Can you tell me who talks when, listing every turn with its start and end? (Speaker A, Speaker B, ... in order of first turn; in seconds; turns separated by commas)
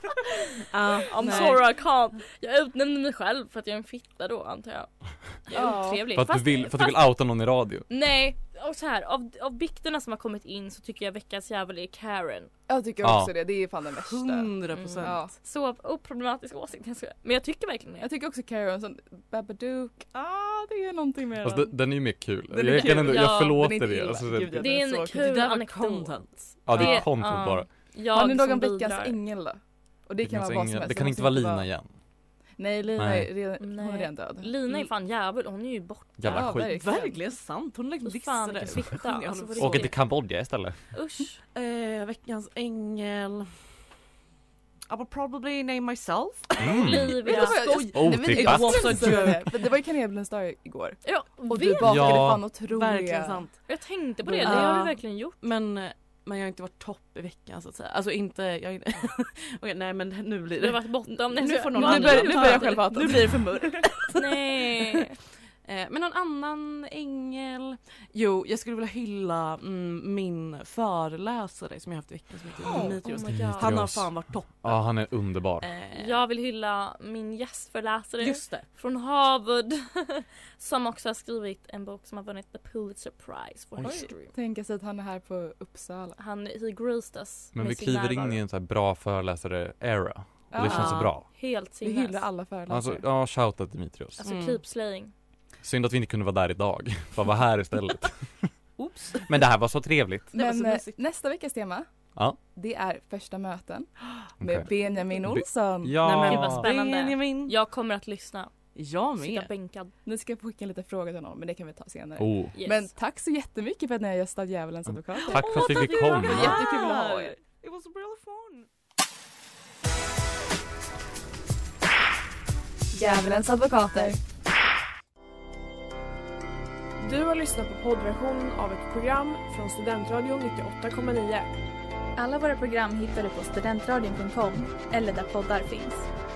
Speaker A: 0.7-1.6, Speaker B: 1.1-4.9, Speaker B: 5.5-7.0, Speaker C: 5.5-6.0, Speaker D: 6.1-7.9, Speaker B: 7.9-12.5, Speaker C: 12.7-15.3, Speaker D: 13.0-13.3, Speaker A: 14.1-15.2, Speaker B: 14.7-18.1, Speaker C: 18.0-21.8, Speaker D: 21.4-24.8, Speaker C: 22.5-25.4, Speaker B: 22.8-23.6, Speaker B: 24.5-29.2, Speaker A: 25.1-26.4, Speaker D: 26.6-27.7, Speaker C: 28.1-31.7, Speaker D: 30.2-31.9, Speaker C: 32.6-34.5, Speaker D: 33.0-33.3, Speaker B: 33.6-36.6, Speaker D: 36.2-36.7, Speaker C: 36.2-37.2, Speaker A: 36.6-39.9, Speaker B: 38.0-40.0, Speaker D: 39.6-40.8, Speaker B: 40.9-41.4, Speaker A: 41.5-43.6, Speaker A: 44.9-49.6, Speaker D: 46.6-49.4, Speaker B: 46.6-47.6, Speaker C: 46.9-53.5, Speaker B: 51.0-52.1, Speaker D: 51.8-52.5, Speaker A: 52.7-53.6, Speaker B: 53.7-55.4, Speaker C: 54.2-54.9, Speaker A: 54.4-65.0, Speaker B: 60.6-63.0, Speaker C: 61.7-63.8, Speaker B: 64.2-65.1, Speaker A: 65.6-75.0, Speaker C: 72.6-73.0, Speaker B: 73.0-73.8, Speaker D: 73.3-75.7, Speaker A: 75.6-76.2, Speaker B: 75.9-84.3, Speaker A: 78.2-78.7, Speaker C: 83.8-86.2, Speaker B: 86.2-88.4, Speaker D: 87.5-91.2, Speaker C: 90.5-91.2, Speaker A: 90.6-91.1, Speaker B: 91.2-92.2, Speaker C: 91.8-93.0, Speaker D: 92.7-94.2, Speaker B: 94.2-95.1, Speaker A: 94.2-94.6, Speaker D: 95.6-98.5, Speaker A: 98.8-99.3, Speaker D: 99.2-100.3, Speaker A: 100.3-101.0, Speaker C: 100.3-101.9, Speaker C: 102.5-106.0, Speaker D: 104.4-104.7, Speaker D: 105.2-106.7, Speaker A: 106.0-107.5, Speaker B: 106.2-108.5, Speaker A: 108.7-109.5, Speaker B: 109.2-109.9, Speaker C: 110.0-117.3, Speaker D: 112.2-112.5, Speaker B: 112.5-112.9, Speaker D: 114.9-116.6, Speaker A: 115.3-118.7, Speaker E: 122.9-124.2, Speaker F: 127.0-131.5, Speaker E: 132.2-136.1